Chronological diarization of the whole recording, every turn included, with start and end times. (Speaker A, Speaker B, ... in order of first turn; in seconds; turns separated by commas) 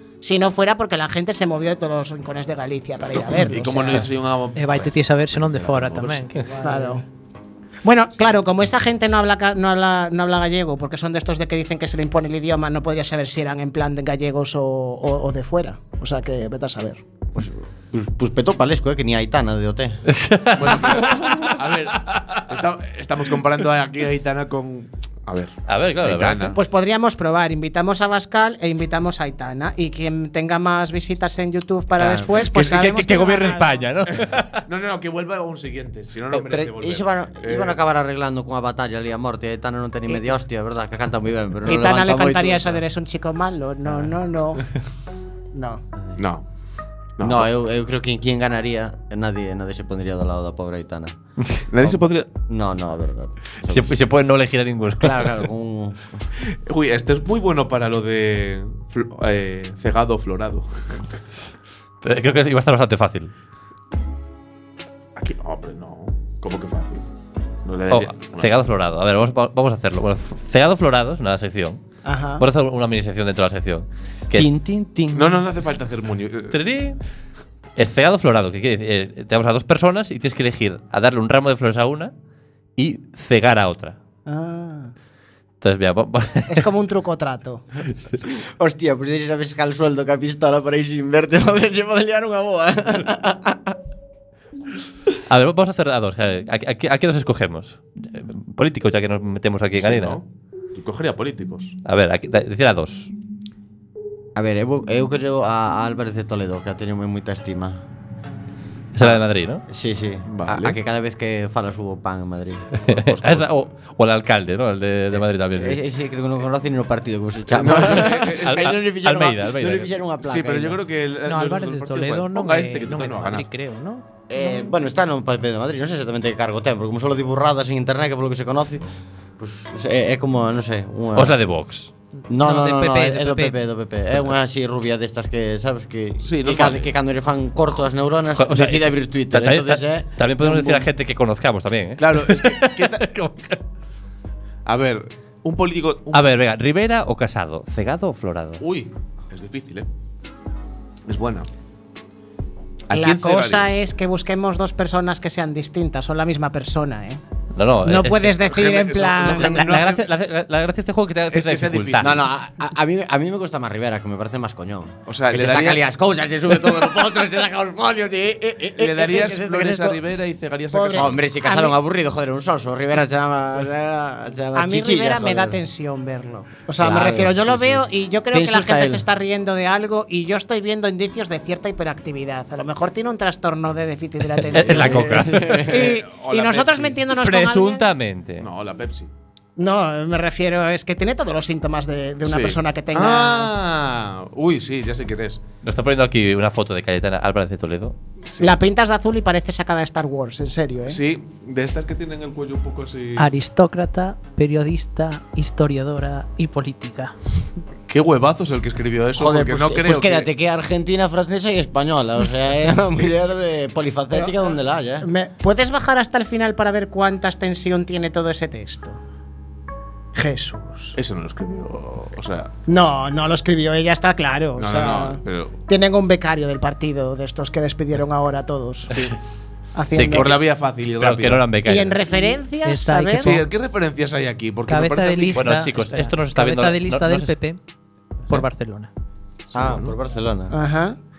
Speaker A: 0.2-4.0, Speaker B: 3.2-6.3, Speaker C: 4.5-7.0, Speaker A: 6.6-7.0, Speaker A: 7.8-17.0, Speaker D: 17.3-20.0, Speaker E: 20.1-21.6, Speaker B: 20.5-26.6, Speaker E: 25.7-26.6, Speaker A: 26.5-33.8, Speaker D: 32.0-32.3, Speaker E: 32.3-34.6, Speaker B: 34.1-37.8, Speaker D: 36.3-42.8, Speaker A: 41.6-44.6, Speaker A: 45.5-45.8, Speaker B: 46.2-46.4, Speaker B: 47.2-47.5, Speaker D: 47.2-51.1, Speaker B: 51.7-52.3, Speaker D: 51.8-54.0, Speaker E: 53.7-55.4, Speaker D: 55.0-56.0, Speaker B: 56.5-61.0, Speaker E: 62.0-63.3, Speaker B: 65.2-67.0, Speaker B: 67.6-68.5, Speaker E: 67.9-71.8, Speaker A: 72.0-72.4, Speaker E: 72.4-74.5, Speaker D: 74.3-75.4, Speaker B: 75.1-76.5, Speaker E: 76.5-77.0, Speaker E: 77.8-82.1, Speaker E: 82.8-84.0, Speaker A: 84.3-84.9, Speaker E: 85.6-86.7, Speaker A: 86.5-87.6, Speaker D: 88.3-93.8, Speaker E: 95.3-100.2, Speaker B: 99.8-101.8, Speaker E: 101.8-103.1, Speaker D: 104.3-107.8, Speaker E: 108.9-109.6, Speaker D: 109.0-112.7, Speaker B: 110.3-110.8, Speaker E: 112.8-115.8, Speaker B: 112.9-113.5, Speaker D: 115.5-120.8, Speaker B: 117.5-118.8, Speaker E: 118.4-120.0, Speaker B: 120.2-123.5, Speaker C: 121.2-124.0, Speaker D: 124.3-128.9, Speaker D: 129.4-131.4, Speaker E: 131.2-131.9, Speaker C: 132.2-133.6, Speaker D: 132.3-140.9, Speaker B: 136.2-136.9, Speaker E: 138.4-143.6, Speaker B: 142.0-143.1, Speaker B: 144.7-146.3, Speaker E: 146.1-148.6, Speaker B: 148.6-149.9, Speaker B: 151.1-151.5, Speaker B: 152.9-153.7, Speaker A: 152.9-157.2, Speaker E: 157.5-158.4, Speaker A: 157.8-159.8, Speaker B: 158.4-160.0, Speaker E: 159.2-162.2, Speaker B: 161.3-162.2, Speaker D: 162.0-170.0, Speaker B: 165.1-165.8, Speaker B: 168.8-171.2, Speaker A: 170.7-171.7, Speaker D: 170.9-175.6, Speaker A: 174.5-187.9, Speaker D: 176.8-179.0, Speaker E: 184.5-185.7, Speaker D: 184.6-185.9, Speaker B: 184.7-185.0, Speaker B: 185.7-187.0, Speaker E: 187.1-188.5, Speaker B: 188.4-189.1, Speaker A: 189.6-193.5, Speaker B: 192.2-195.4, Speaker E: 195.6-197.9, Speaker B: 198.2-198.6, Speaker A: 198.4-201.0, Speaker B: 200.8-203.3, Speaker C: 203.2-207.1, Speaker B: 207.9-210.3, Speaker D: 209.1-215.1, Speaker A: 214.1-214.4, Speaker A: 215.0-219.0, Speaker A: 220.1-220.9, Speaker B: 220.9-222.5, Speaker A: 222.7-228.9, Speaker B: 224.6-225.6, Speaker A: 229.7-230.3, Speaker E: 229.9-230.4, Speaker B: 230.1-231.4, Speaker E: 231.0-232.0, Speaker A: 231.7-233.4, Speaker C: 232.6-233.5, Speaker B: 233.2-235.5, Speaker C: 234.7-237.6, Speaker E: 235.3-237.4, Speaker C: 238.3-238.9, Speaker B: 239.5-239.9, Speaker D: 239.5-240.5, Speaker A: 240.5-241.0